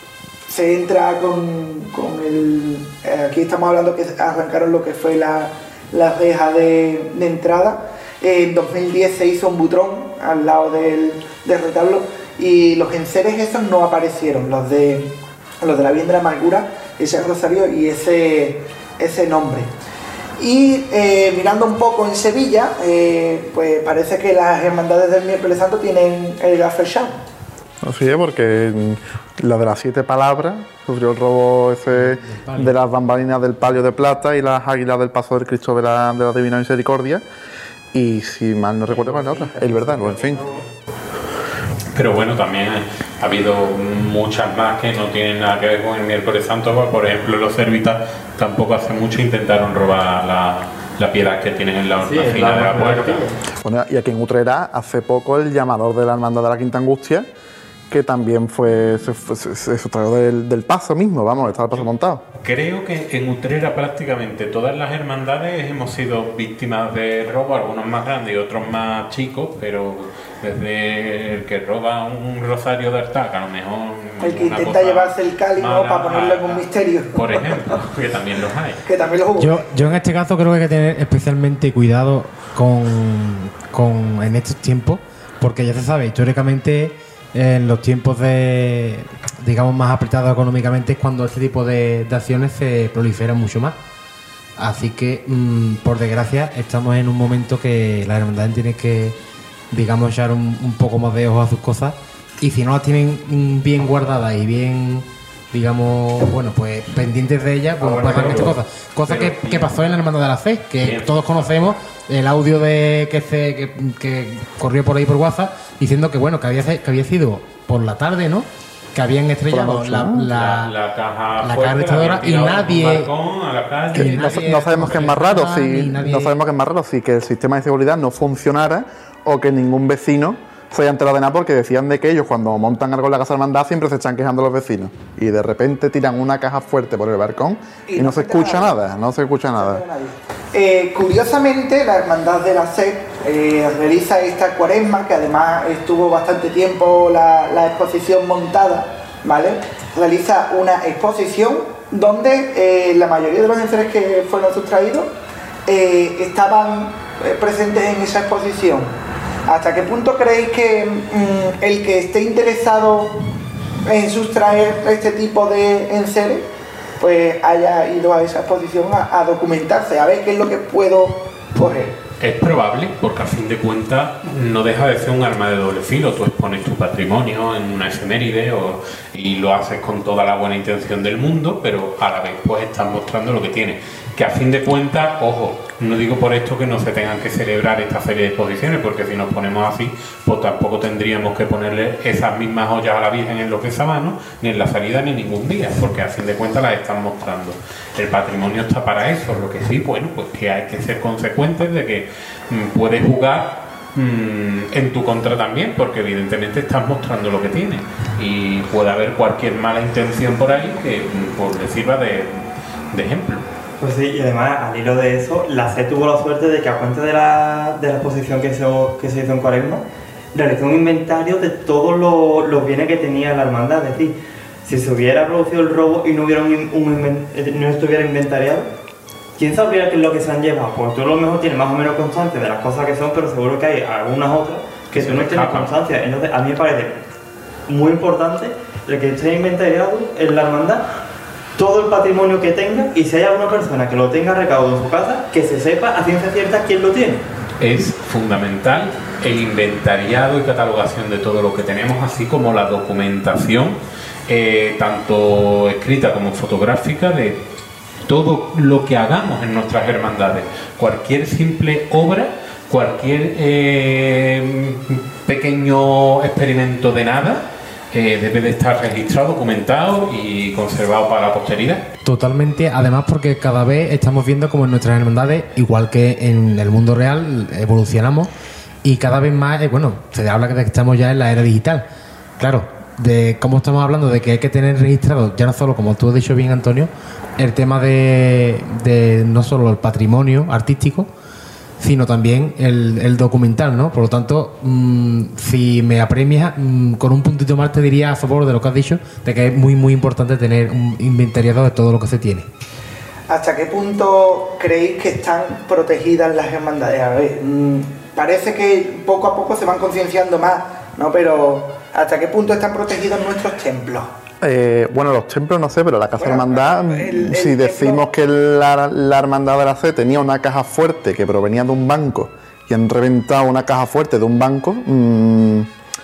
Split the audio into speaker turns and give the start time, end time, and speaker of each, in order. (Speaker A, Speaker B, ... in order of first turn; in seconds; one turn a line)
Speaker A: 0.5-19.7
Speaker A: 20.4-27.1
Speaker B: 27.8-37.2
Speaker C: 31.9-32.8
Speaker B: 37.9-40.4
Speaker D: 38.9-40.6
Speaker E: 42.0-53.3
Speaker D: 52.0-53.4
Speaker B: 53.6-57.3
Speaker B: 57.9-62.2
Speaker E: 62.4-78.8
Speaker A: 74.2-77.8
Speaker A: 78.8-79.7
Speaker C: 79.4-93.8
Speaker C: 94.6-99.2
Speaker C: 99.7-120.7
Speaker D: 107.8-108.6
Speaker E: 108.1-110.0
Speaker E: 110.8-111.8
Speaker B: 119.5-120.3
Speaker E: 120.3-125.1
Speaker C: 121.4-123.1
Speaker C: 123.9-126.3
Speaker B: 124.0-139.8
Speaker A: 137.9-138.8
Speaker A: 139.5-155.1
Speaker A: 155.7-158.9
Speaker A: 159.5-163.2
Speaker A: 163.9-166.5
Speaker A: 167.0-171.9
Speaker E: 172.2-213.5
Speaker D: 213.8-228.7
Speaker D: 229.4-237.0
Speaker E: 234.9-235.8
Speaker D: 237.7-240.9
Speaker D: 241.6-247.2
Speaker E: 247.6-257.4
Speaker E: 258.1-271.9
Speaker C: 272.0-278.3
Speaker C: 278.8-281.9
Speaker C: 282.4-291.1
Speaker C: 291.8-302.5
Speaker A: 303.3-314.1
Speaker B: 314.4-325.7
Speaker A: 316.2-318.1